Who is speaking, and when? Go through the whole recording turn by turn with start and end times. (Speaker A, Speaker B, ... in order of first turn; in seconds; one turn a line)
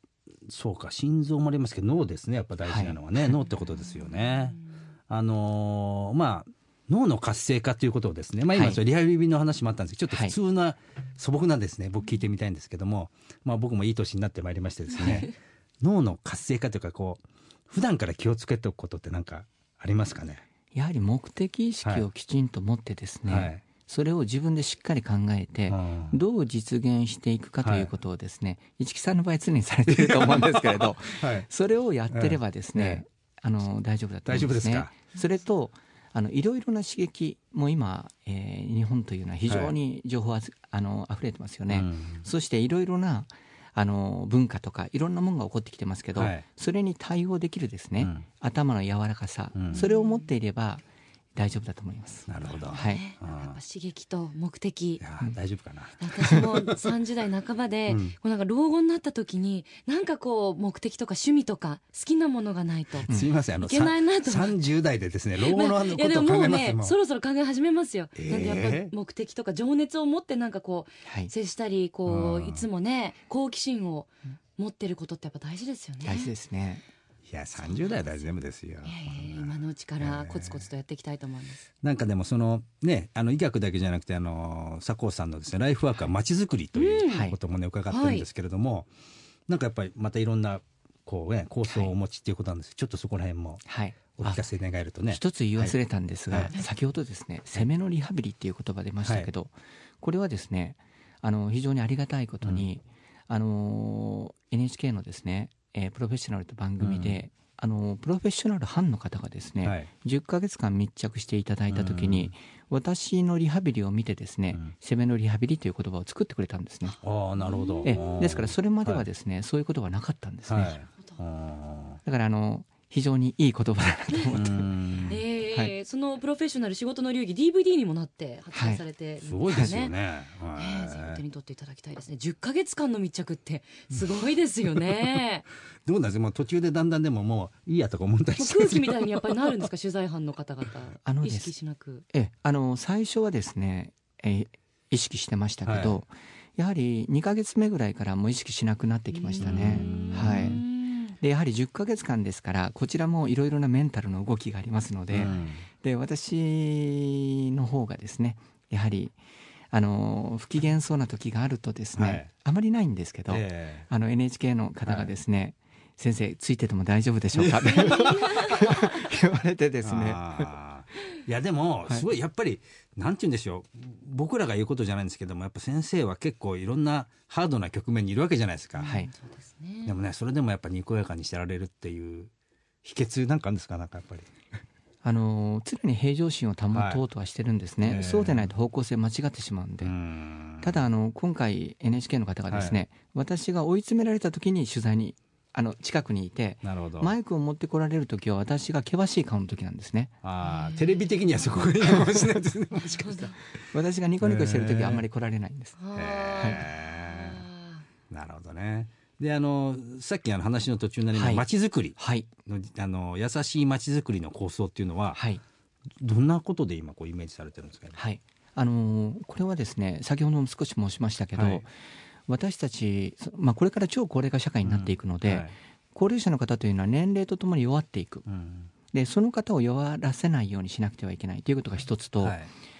Speaker A: 0.5-20.4
Speaker B: 2.7-3.0
Speaker B: 8.5-8.8
Speaker B: 15.0-15.2
Speaker B: 20.7-50.8
Speaker A: 23.3-23.6
Speaker A: 25.7-26.2
Speaker A: 27.6-27.9
Speaker A: 29.9-31.5
Speaker A: 32.1-33.0
Speaker A: 34.3-35.0
Speaker A: 39.5-39.8
Speaker A: 41.7-42.2
Speaker A: 46.2-46.5
Speaker A: 48.0-48.2
Speaker A: 49.5-49.8
Speaker C: 49.7-50.2
Speaker B: 51.4-53.0
Speaker A: 52.3-53.6
Speaker C: 52.4-55.0
Speaker A: 55.0-56.8
Speaker C: 56.0-63.1
Speaker A: 57.9-58.1
Speaker A: 63.1-67.0
Speaker C: 63.6-64.6
Speaker C: 65.4-76.3
Speaker A: 68.2-68.9
Speaker B: 71.0-71.3
Speaker A: 72.1-72.7
Speaker B: 76.0-76.8
Speaker A: 77.3-80.6
Speaker C: 77.6-78.1
Speaker C: 78.8-81.7
Speaker A: 81.8-88.9
Speaker C: 86.8-87.3
Speaker B: 87.1-87.3
Speaker C: 87.9-88.3
Speaker A: 89.5-95.8
Speaker B: 91.7-91.9
Speaker B: 93.7-94.4
Speaker B: 95.1-117.0
Speaker A: 106.8-107.2
Speaker A: 109.6-109.9
Speaker A: 111.7-112.3
Speaker C: 116.9-118.0
Speaker A: 117.0-119.0
Speaker B: 117.8-120.8
Speaker A: 120.5-122.0
Speaker B: 122.0-125.7
Speaker A: 124.3-125.2
Speaker C: 125.1-129.9
Speaker B: 128.5-128.8
Speaker A: 129.2-131.2
Speaker C: 130.6-135.4
Speaker A: 135.9-139.7
Speaker C: 138.4-142.0
Speaker B: 141.1-141.5
Speaker B: 142.1-150.6
Speaker A: 145.7-146.0
Speaker C: 149.1-151.2
Speaker A: 149.4-150.6
Speaker B: 151.2-159.2
Speaker A: 155.1-155.7
Speaker B: 159.7-170.5
Speaker A: 162.0-162.3
Speaker A: 163.3-163.9
Speaker A: 164.8-165.1
Speaker A: 167.3-168.6
Speaker C: 167.7-168.9
Speaker A: 169.8-178.9
Speaker C: 178.8-180.0
Speaker B: 178.8-179.1
Speaker A: 179.8-182.3
Speaker A: 182.8-184.3
Speaker B: 185.0-189.9
Speaker A: 186.7-187.0
Speaker A: 187.8-188.5
Speaker A: 189.8-190.8
Speaker B: 190.6-200.1
Speaker A: 192.5-192.8
Speaker A: 196.6-197.1
Speaker A: 200.2-203.7
Speaker C: 200.4-201.0
Speaker C: 202.7-203.4
Speaker B: 203.7-205.8
Speaker A: 204.2-205.1
Speaker C: 205.8-207.8
Speaker A: 205.9-207.4
Speaker A: 208.1-215.2
Speaker B: 211.1-211.4
Speaker B: 212.0-212.3
Speaker B: 215.1-215.4
Speaker A: 216.0-218.0
Speaker B: 217.9-221.7
Speaker A: 221.3-221.7
Speaker B: 222.3-228.2
Speaker A: 224.6-225.5
Speaker A: 228.3-228.7
Speaker B: 228.9-232.4
Speaker A: 232.2-232.5